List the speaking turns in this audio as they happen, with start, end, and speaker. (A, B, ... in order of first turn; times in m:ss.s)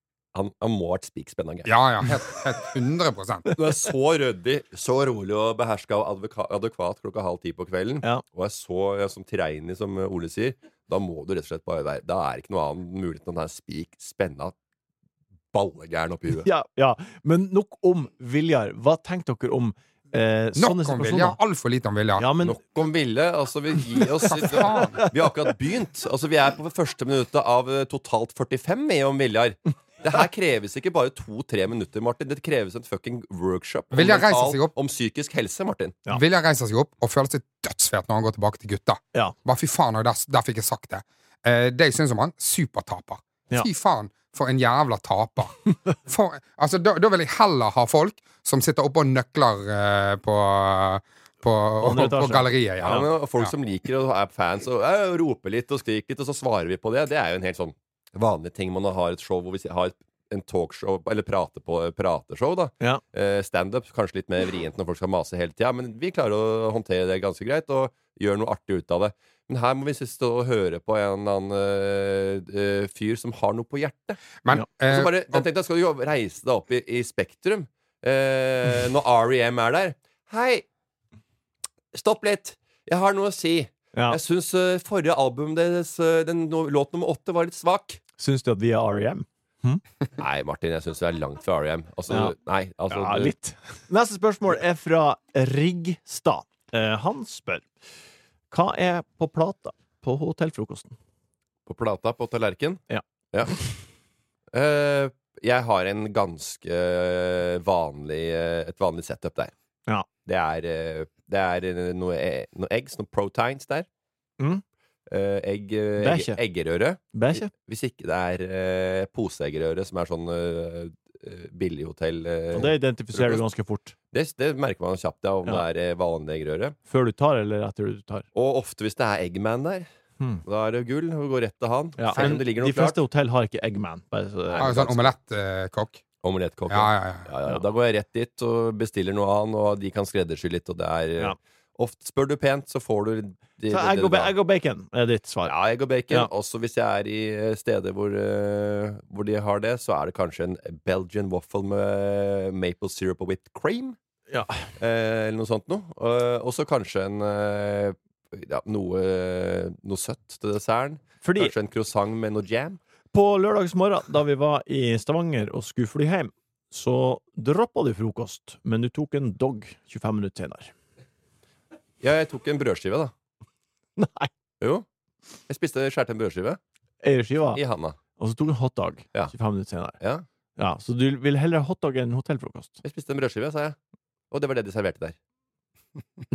0:00.3-0:01.7 A
0:01.7-0:03.4 B
0:03.6-0:14.5 A
0:15.5-0:16.5 A
0:16.4-0:21.4 C
0:20.6-0:22.3 B
0:22.2-0:22.6 C
0:22.4-0:36.0 A
0:24.2-0:25.0 B
0:24.5-0:25.1 C
0:33.9-0:34.7 B
0:36.1-0:53.5 B
0:51.8-0:53.1 C
0:52.8-1:20.6 A
1:14.4-1:15.4 B
1:21.9-1:28.0 A
1:28.2-1:29.8 C
1:30.2-1:33.3 A
1:32.1-1:32.4 C
1:32.9-1:37.7 C
1:38.5-1:41.0 C
1:41.7-1:42.8 A
1:43.3-1:43.7 A
1:44.5-1:49.5 A
1:50.2-1:53.9 A
1:55.1-2:03.4 A
1:56.0-1:56.4 C
1:57.1-1:57.5 C
2:02.5-2:03.9 C
2:04.1-2:06.8 A
2:06.9-2:08.3 C
2:08.4-2:09.9 A
2:10.4-2:13.0 A
2:12.0-2:15.1 C
2:14.6-2:16.0 B
2:16.2-2:24.3 A
2:16.7-2:17.3 B
2:23.7-2:25.5 C
2:25.5-2:34.0 A
2:34.3-2:34.7 C
2:34.8-2:42.8 A
2:41.2-2:41.5 C
2:43.1-2:50.7 C
2:52.0-2:53.1 A
2:54.0-2:54.3 C
2:55.5-2:56.6 A
2:57.0-2:57.6 C
2:57.5-2:58.0 A
2:58.2-3:00.0 C
3:00.0-3:00.3 A
3:00.6-3:02.8 C
3:02.8-3:03.8 A
3:04.3-3:05.2 A